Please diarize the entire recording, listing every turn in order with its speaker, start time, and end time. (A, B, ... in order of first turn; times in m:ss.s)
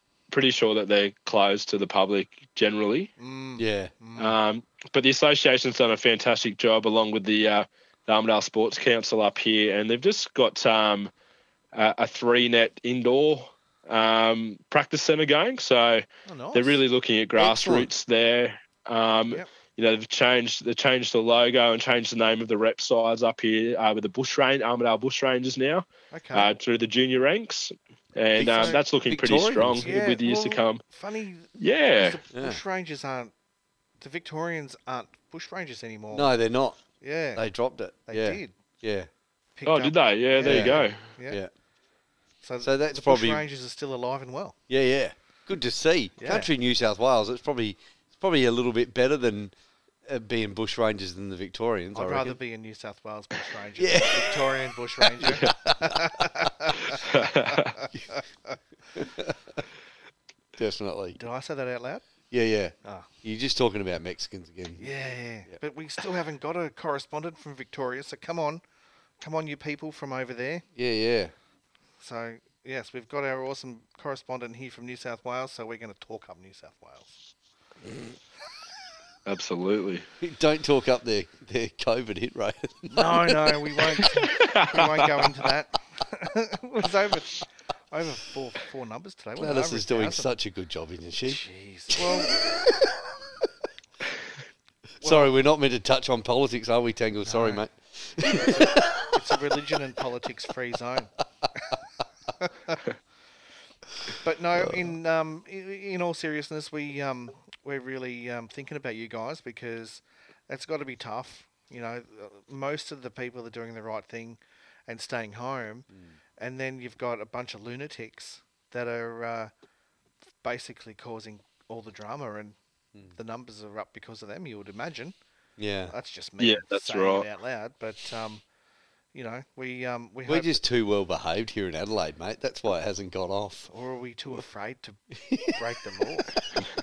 0:00.3-0:03.1 A
0:03.2-0:04.4 B
0:03.6-0:03.9 C
0:04.2-0:11.1 A
0:11.7-0:30.8 A
0:16.3-0:16.8 B
0:17.4-0:17.9 C
0:26.1-0:26.5 B
0:28.4-0:29.9 C
0:28.5-0:28.8 B
0:29.8-0:33.3 B
0:31.6-0:32.2 A
0:32.3-0:32.6 C
0:34.0-0:36.3 B
0:36.1-0:36.8 C
0:37.0-0:37.4 B
0:37.4-0:39.1 C
0:38.1-0:38.5 B
0:39.6-0:41.4 B
0:39.7-0:41.0 A
0:40.4-0:41.5 C
0:42.4-0:44.6 B
0:42.6-0:43.4 C
0:44.7-0:49.5 C
0:46.2-0:46.5 B
0:50.0-0:52.4 C
0:52.0-0:58.6 B
0:53.8-0:56.5 C
0:57.0-0:57.8 A
0:59.0-0:59.6 C
1:00.6-1:01.2 C
1:01.2-1:02.1 B
1:02.3-1:04.9 C
1:02.8-1:03.1 B
1:04.8-1:08.6 B
1:09.2-1:10.7 B
1:10.8-1:11.3 C
1:12.0-1:17.1 B
1:19.2-1:20.1 A
1:20.2-1:24.0 C
1:22.9-1:30.3 B
1:24.2-1:25.2 A
1:29.4-1:33.1 C
1:31.3-1:32.4 B
1:35.0-1:39.4 C
1:35.0-1:35.3 B
1:37.2-1:37.6 B
1:38.3-1:41.8 B
1:42.3-1:42.8 B
1:44.1-1:59.5 B
1:44.6-1:44.9 C
2:00.4-2:02.6 B
2:03.1-2:05.2 B
2:05.6-2:05.9 C
2:05.9-2:08.4 B
2:06.4-2:07.3 A
2:09.1-2:10.6 B
2:10.3-2:13.7 C
2:13.7-2:16.4 B
2:15.2-2:15.6 C
2:16.3-2:16.6 C